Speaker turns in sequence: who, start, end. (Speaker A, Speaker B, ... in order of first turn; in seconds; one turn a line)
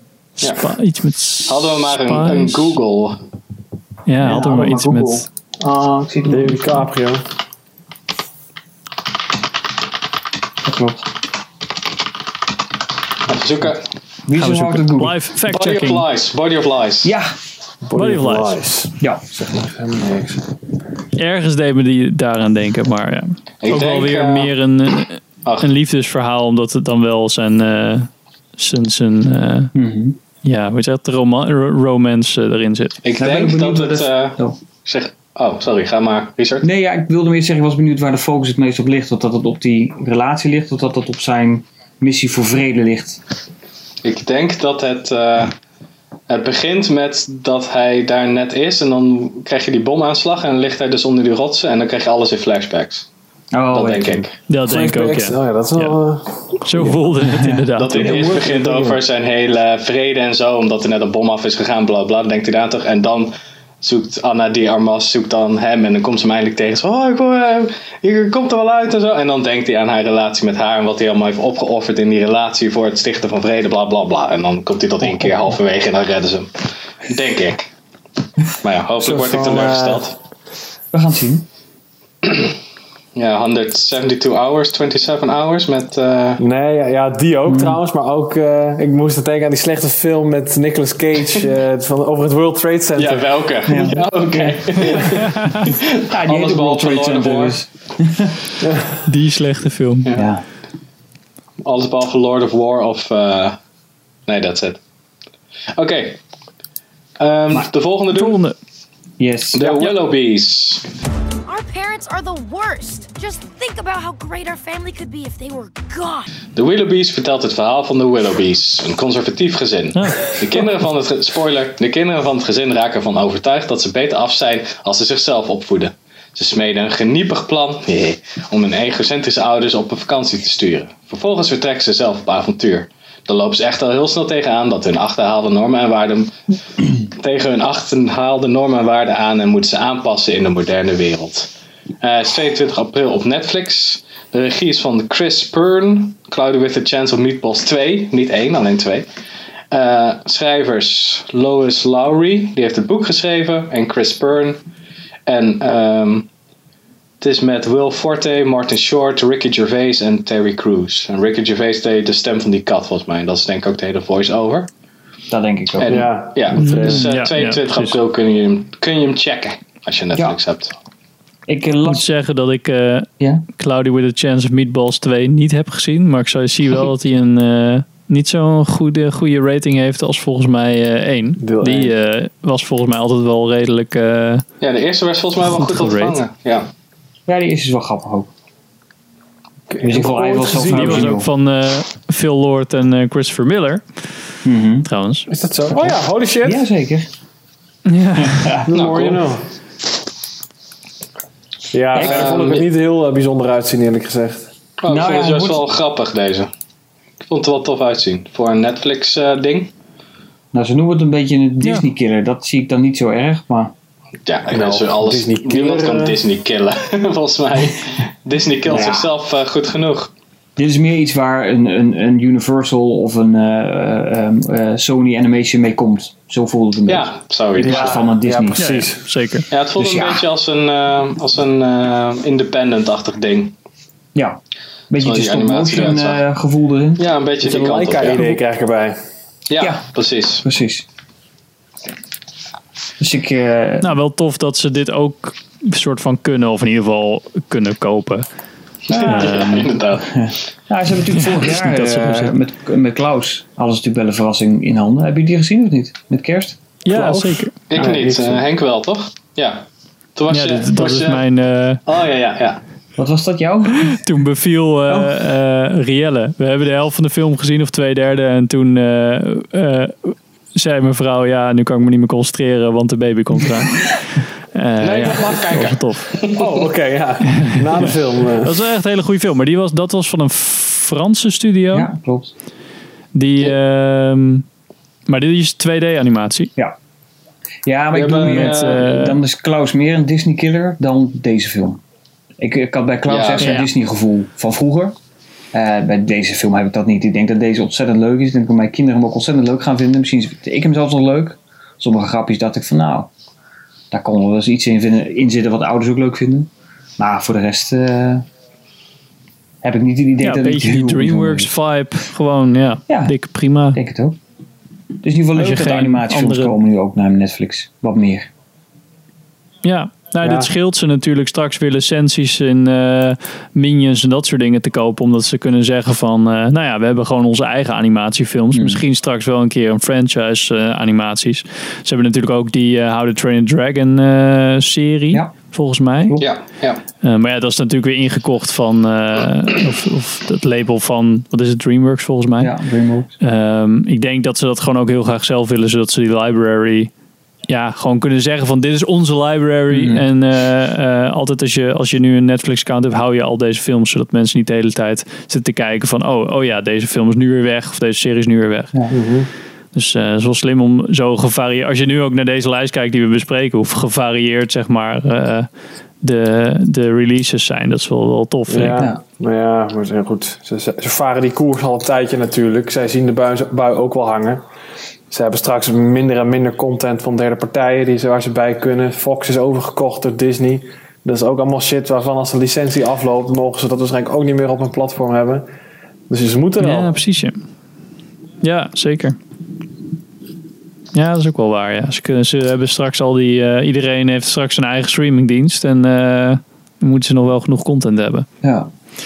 Speaker A: 0.5-2.7
Speaker B: 1.5-3.2
Speaker A: 4.1-5.2
Speaker C: 4.2-6.7
Speaker D: 6.2-7.2
Speaker C: 10.6-11.0
Speaker B: 13.3-13.8
Speaker C: 14.3-15.2
Speaker A: 14.3-16.0
Speaker B: 15.5-17.1
Speaker C: 17.0-17.3
Speaker D: 17.8-20.4
Speaker A: 17.9-18.6
Speaker A: 21.1-29.7
Speaker B: 23.6-24.5
Speaker C: 29.7-30.2
Speaker A: 30.4-33.0
Speaker B: 33.0-36.7
Speaker C: 33.2-34.5
Speaker C: 36.6-43.2
Speaker B: 44.0-45.5
Speaker B: 46.3-53.1
Speaker C: 53.5-54.2
Speaker B: 53.7-54.4
Speaker A: 54.5-56.0
Speaker D: 54.6-57.1
Speaker A: 56.6-58.2
Speaker C: 57.2-57.6
Speaker B: 57.8-76.5
Speaker D: 57.9-59.0
Speaker B: 77.1-77.7
Speaker B: 78.6-80.1
Speaker D: 79.0-80.1
Speaker C: 80.9-81.4
Speaker B: 82.2-82.5
Speaker B: 83.2-86.4
Speaker D: 86.4-93.8
Speaker C: 87.5-87.8
Speaker B: 93.0-97.6
Speaker C: 93.7-95.3
Speaker C: 96.1-98.3
Speaker D: 98.6-98.9
Speaker A: 99.0-100.1
Speaker C: 100.2-100.4
Speaker B: 101.6-103.6
Speaker B: 104.3-104.8
Speaker B: 105.8-106.2
Speaker B: 107.2-108.4
Speaker A: 108.1-108.5
Speaker C: 109.2-109.7
Speaker B: 109.5-110.8
Speaker E: 111.5-116.3
Speaker B: 116.5-136.3
Speaker A: 119.9-120.3
Speaker B: 137.1-141.5
Speaker B: 142.0-149.1
Speaker B: 149.7-154.6
Speaker B: 155.3-156.3
Speaker B: 157.2-164.7
Speaker C: 165.3-166.1
Speaker B: 165.7-170.7
Speaker D: 165.8-167.1
Speaker A: 166.6-167.9
Speaker C: 171.5-172.1
Speaker A: 171.8-184.4
Speaker D: 181.4-181.9
Speaker B: 184.6-186.7
Speaker A: 185.4-186.2
Speaker C: 187.3-188.3
Speaker D: 189.7-191.2
Speaker C: 189.8-191.3
Speaker A: 190.6-194.1
Speaker C: 194.4-194.9
Speaker A: 194.8-195.3
Speaker D: 195.3-196.7
Speaker C: 196.4-197.1
Speaker A: 197.8-198.5
Speaker C: 198.2-198.7
Speaker D: 198.6-199.4
Speaker B: 198.7-199.2
Speaker D: 201.7-204.5
Speaker C: 201.9-202.3
Speaker B: 202.0-202.7
Speaker B: 204.8-206.5
Speaker C: 204.9-205.6
Speaker B: 207.3-209.7
Speaker C: 210.5-213.7
Speaker A: 211.6-211.9
Speaker B: 214.2-220.1
Speaker D: 214.5-216.2
Speaker C: 218.7-219.1
Speaker D: 218.7-218.9
Speaker C: 220.6-228.6
Speaker B: 226.8-228.1
Speaker D: 227.6-229.1
Speaker A: 228.6-229.5
Speaker B: 229.5-233.5
Speaker C: 229.8-230.2
Speaker C: 234.9-237.0
Speaker B: 235.0-236.2
Speaker B: 237.0-238.4
Speaker D: 237.4-239.0
Speaker B: 239.5-240.4
Speaker C: 240.4-240.8
Speaker C: 243.0-243.9
Speaker A: 243.8-248.2
Speaker B: 248.9-250.3
Speaker C: 248.9-256.6
Speaker A: 249.0-249.7
Speaker A: 251.2-252.3
Speaker A: 256.8-257.6
Speaker D: 256.9-258.4
Speaker B: 257.7-259.6
Speaker B: 260.1-261.2
Speaker A: 260.3-261.8
Speaker B: 261.9-262.6
Speaker C: 263.0-264.0
Speaker A: 263.9-276.1
Speaker C: 264.9-265.1
Speaker B: 274.8-276.7
Speaker D: 276.3-278.5
Speaker A: 277.4-277.9
Speaker A: 278.4-281.9
Speaker C: 281.7-282.3
Speaker A: 283.1-284.4
Speaker A: 285.1-286.5
Speaker C: 287.6-291.8
Speaker B: 287.9-288.8
Speaker A: 288.1-289.2
Speaker C: 292.4-294.9
Speaker B: 293.1-293.6
Speaker A: 293.4-293.7
Speaker C: 295.5-303.1
Speaker C: 303.9-308.2
Speaker C: 309.6-311.5
Speaker A: 310.2-313.8
Speaker C: 312.9-313.2
Speaker C: 313.7-314.2
Speaker C: 315.0-318.3
Speaker A: 315.3-316.6
Speaker A: 319.6-336.2
Speaker D: 320.2-320.5
Speaker C: 328.5-328.8
Speaker B: 336.2-336.8
Speaker A: 337.0-342.5
Speaker C: 342.4-343.1
Speaker A: 343.2-346.9
Speaker A: 347.5-358.7
Speaker C: 349.7-350.0
Speaker D: 358.9-359.3
Speaker A: 359.7-365.5
Speaker A: 366.0-368.8
Speaker D: 368.5-374.4
Speaker D: 375.1-385.5
Speaker D: 386.1-386.9
Speaker A: 386.6-387.4
Speaker A: 388.4-389.2
Speaker A: 390.9-398.3
Speaker C: 398.4-398.7